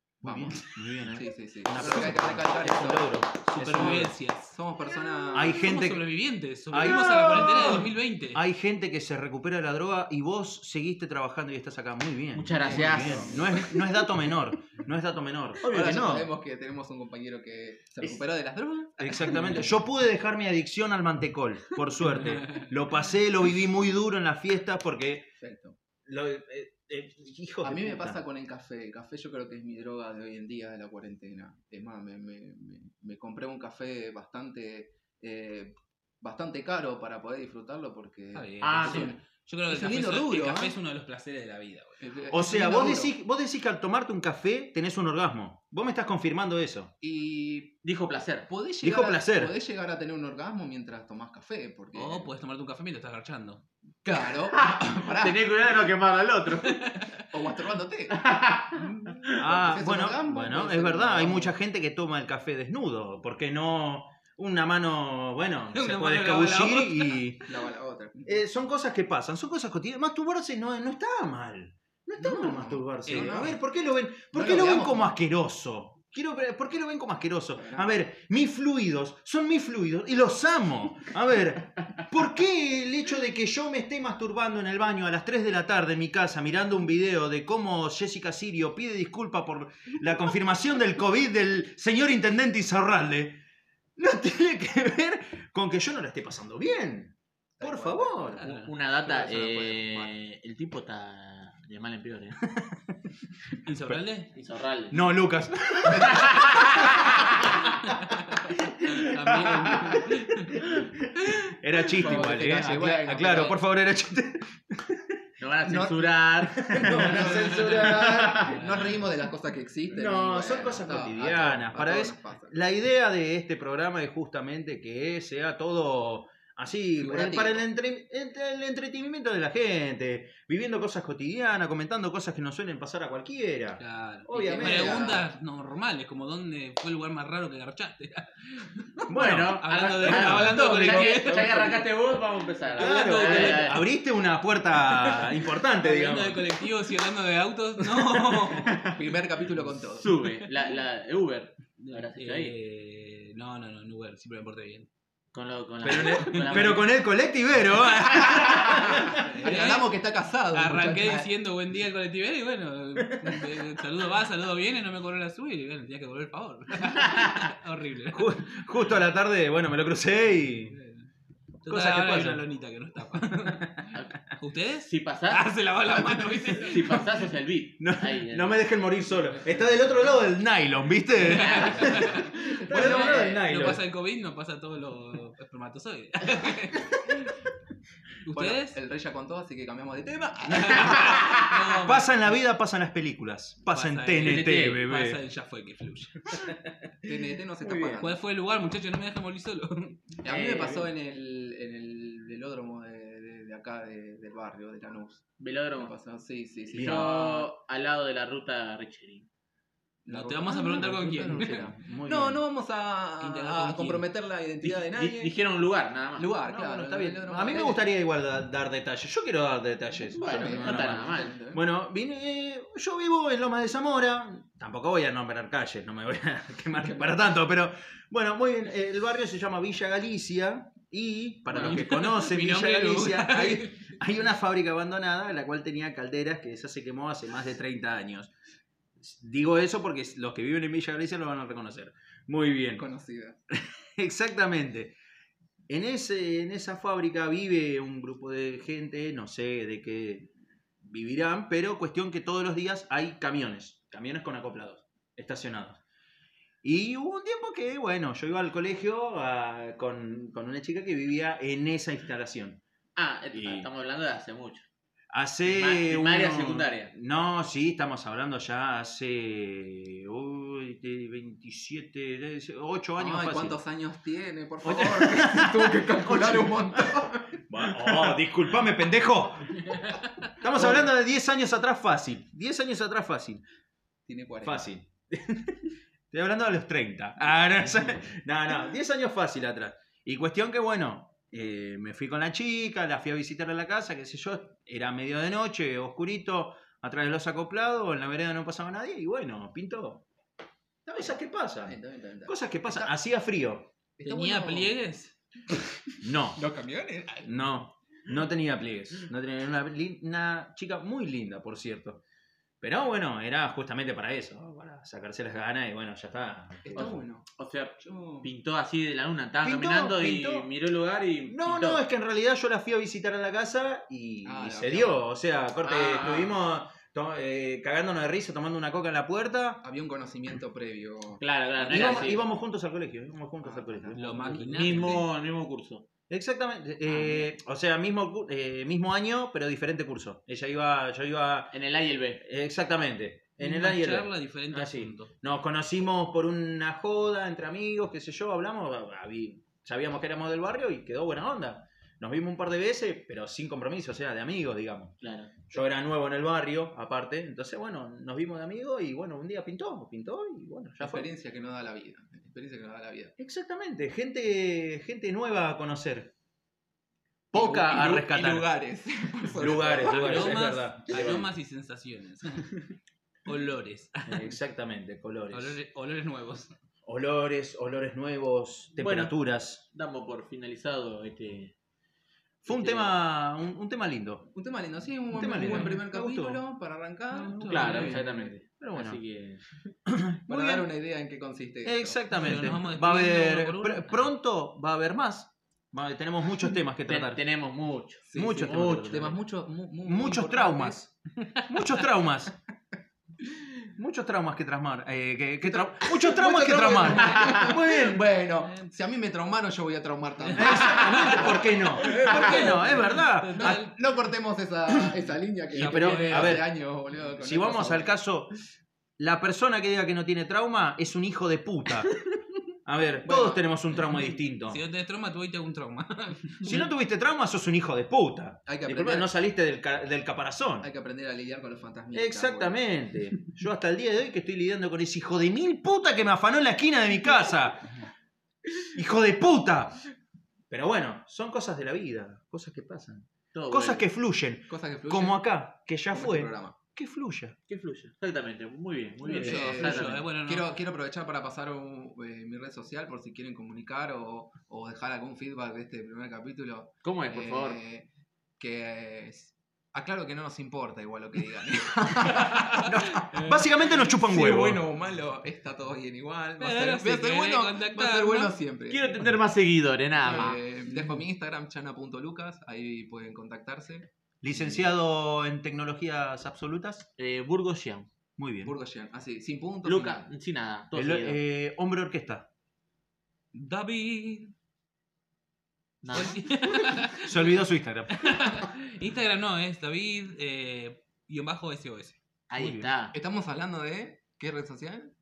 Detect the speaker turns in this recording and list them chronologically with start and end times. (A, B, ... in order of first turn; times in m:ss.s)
0:00.2-0:04.2 A
0:00.2-0:00.6 B
0:01.1-0:05.6 B
0:03.6-0:04.6 C
0:05.3-0:06.1 A
0:05.4-0:08.4 C
0:06.7-0:16.3 A
0:06.9-0:07.8 B
0:12.3-0:13.7 D
0:12.6-0:13.4 B
0:15.6-0:19.6 B
0:19.0-0:25.3 A
0:19.3-0:19.7 C
0:25.4-0:25.8 B
0:26.1-0:28.2 A
0:27.6-0:40.8 B
0:38.3-0:42.0 C
0:38.6-0:39.2 D
0:42.0-0:43.1 B
0:42.3-0:46.9 A
0:47.0-0:47.8 B
0:47.8-0:48.5 D
0:48.5-0:52.3 B
0:48.8-0:49.6 A
0:51.9-0:53.6 C
0:54.0-0:55.9 B
0:54.5-0:56.8 D
0:56.6-0:57.2 C
0:57.3-0:58.2 B
0:58.1-0:58.9 D
0:59.3-1:01.6 B
0:59.3-1:07.4 A
1:05.7-1:07.2 C
1:07.5-1:08.4 B
1:08.2-1:33.4 A
1:12.2-1:13.6 B
1:13.1-1:13.6 C
1:14.3-1:15.1 B
1:17.6-1:18.0 B
1:34.0-1:38.4 A
1:37.6-1:40.1 B
1:38.3-1:38.7 C
1:38.4-1:42.4 D
1:42.5-1:43.0 A
1:43.6-1:44.3 C
1:44.3-1:45.0 D
1:44.9-1:47.5 A
1:46.0-1:46.6 D
1:47.8-1:50.7 C
1:48.5-1:55.2 A
1:52.0-1:53.6 B
1:52.2-1:53.4 D
1:55.4-1:56.6 D
1:55.7-2:02.6 B
1:56.7-1:58.5 A
1:57.2-1:59.0 C
1:59.9-2:15.3 A
2:07.0-2:07.6 B
2:13.8-2:21.8 C
2:14.4-2:14.8 D
2:14.4-2:15.2 B
2:19.1-2:20.4 A
2:19.2-2:23.8 D
2:20.3-2:21.8 B
2:22.8-2:23.8 C
2:22.8-2:26.5 A
2:24.8-2:28.8 C
2:28.0-2:29.0 A
2:28.8-2:30.1 B
2:30.0-2:32.6 D
2:31.8-2:34.9 C
2:35.3-2:36.9 D
2:35.8-2:39.8 A
2:35.9-2:36.7 C
2:38.5-2:41.3 B
2:39.1-2:40.0 C
2:40.5-2:48.2 C
2:43.0-2:43.5 A
2:48.1-2:50.8 A
2:50.7-2:51.1 C
2:51.6-2:52.5 A
2:51.6-2:57.2 C
2:53.5-2:53.8 A
2:54.8-2:55.5 D
2:56.0-2:56.5 B
2:56.6-2:58.6 D
2:57.8-3:03.8 A
3:01.2-3:07.4 C
3:01.2-3:02.0 D
3:02.7-3:03.5 B
3:08.2-3:08.8 C
3:08.3-3:11.4 B
3:10.5-3:12.2 C
3:11.8-3:15.2 A
3:13.7-3:16.4 C
3:14.2-3:14.8 D
3:16.3-3:18.0 A
3:17.1-3:18.2 B
3:18.0-3:20.0 C
3:20.2-3:27.5 B
3:20.3-3:20.9 D
3:25.4-3:25.9 D
3:26.7-3:27.1 A
3:26.7-3:29.3 D
3:30.1-3:35.4 B
3:30.1-3:31.7 C
3:31.1-3:32.4 A
3:31.2-3:31.7 D
3:33.2-3:34.1 C
3:34.6-3:36.3 D
3:36.2-3:37.9 B
3:36.5-3:41.0 A
3:40.1-3:41.3 D
3:40.1-3:41.6 B
3:41.5-3:58.3 A
3:51.5-3:51.8 D
3:51.5-3:53.9 C
3:59.0-4:02.8 A
4:02.8-4:03.4 B
4:03.5-4:05.0 A
4:05.7-4:10.3 A
4:10.8-4:15.8 A
4:16.6-4:22.6 A
4:23.0-4:24.7 D
4:23.3-4:23.7 A
4:25.1-4:33.6 A
4:25.4-4:26.9 D
4:33.0-4:38.1 B
4:34.6-4:36.8 A
4:37.5-4:39.8 A
4:40.4-4:43.4 A
4:44.1-4:44.7 B
4:44.4-5:00.1 A
5:00.9-5:03.7 A
5:01.0-5:02.9 B
5:04.0-5:04.8 B
5:04.0-5:05.1 C
5:06.0-5:06.4 A
5:06.4-5:07.4 B
5:07.2-5:12.0 A
5:12.6-5:17.0 A
5:16.6-5:17.3 B
5:16.7-5:21.8 D
5:17.8-5:18.3 B
5:19.4-5:20.5 A
5:21.3-5:29.6 A
5:24.2-5:25.0 B
5:25.6-5:26.4 D
5:29.6-5:32.1 B
5:31.2-5:32.2 D
5:31.6-5:34.4 A
5:33.4-5:35.0 B
5:34.0-5:35.1 C
5:34.1-5:35.9 D
5:36.1-5:41.5 A
5:36.9-5:37.3 D
5:41.5-5:42.2 D
5:42.2-6:01.1 A
5:43.4-5:45.1 C
5:55.0-5:55.4 D
6:00.8-6:03.2 B
6:03.2-6:06.1 A
6:07.3-6:08.5 A
6:07.4-6:10.4 B
6:09.4-6:11.3 A
6:09.8-6:12.6 C
6:13.2-6:14.3 C
6:14.1-6:15.6 A
6:15.3-6:16.5 C
6:16.9-6:19.6 A
6:18.8-6:19.1 D
6:19.7-6:21.5 D
6:22.4-6:24.2 A
6:22.5-6:23.0 D
6:24.3-6:28.1 B
6:25.1-6:26.4 A
6:25.2-6:25.8 C
6:27.1-6:28.3 C
6:27.4-6:29.4 D
6:28.6-6:29.0 A
6:29.9-6:30.7 A
6:30.3-6:32.3 B
6:31.6-6:37.2 A
6:32.1-6:34.1 C
6:36.9-6:39.2 D
6:38.1-6:40.8 B
6:38.1-6:39.1 A
6:39.8-6:40.9 A
6:41.4-6:41.7 C
6:41.5-6:42.3 A
6:43.8-6:48.0 A
6:45.4-6:52.8 B
6:48.3-6:48.7 C
6:50.2-6:53.8 C
6:50.4-6:53.6 A
6:53.4-6:58.0 B
6:55.5-6:56.4 C
6:55.6-6:56.5 A
6:57.2-6:58.3 A
6:59.0-7:01.9 A
7:02.7-7:04.6 A
7:03.0-7:03.4 B
7:04.4-7:06.7 C
7:06.4-7:10.7 A
7:08.5-7:09.1 B
7:10.6-7:12.6 B
7:11.9-7:17.7 A
7:18.8-7:19.8 A
7:20.5-7:27.4 A
7:23.3-7:23.9 D
7:24.5-7:25.3 B
7:25.9-7:26.6 B
7:27.5-7:30.0 D
7:29.0-7:37.9 B
7:29.1-7:30.5 C
7:36.8-7:37.6 D
7:38.4-7:42.9 B
7:42.6-7:44.6 A
7:43.2-7:43.8 C
7:43.8-7:48.9 B
7:46.4-7:48.4 C
7:48.7-7:50.4 D
7:50.0-7:53.9 B
7:50.1-7:51.0 C
7:54.2-7:56.9 A
7:54.3-7:54.6 D
7:57.0-7:57.9 D
7:58.2-7:58.6 A
7:58.4-8:00.1 B
7:59.6-8:01.2 D
8:00.8-8:02.3 A
8:03.3-8:04.3 C
8:05.8-8:06.2 D
8:05.9-8:07.4 C
8:07.0-8:08.1 A
8:07.9-8:12.0 C
8:12.3-8:13.0 D
8:12.3-8:12.7 A
8:12.9-8:14.9 B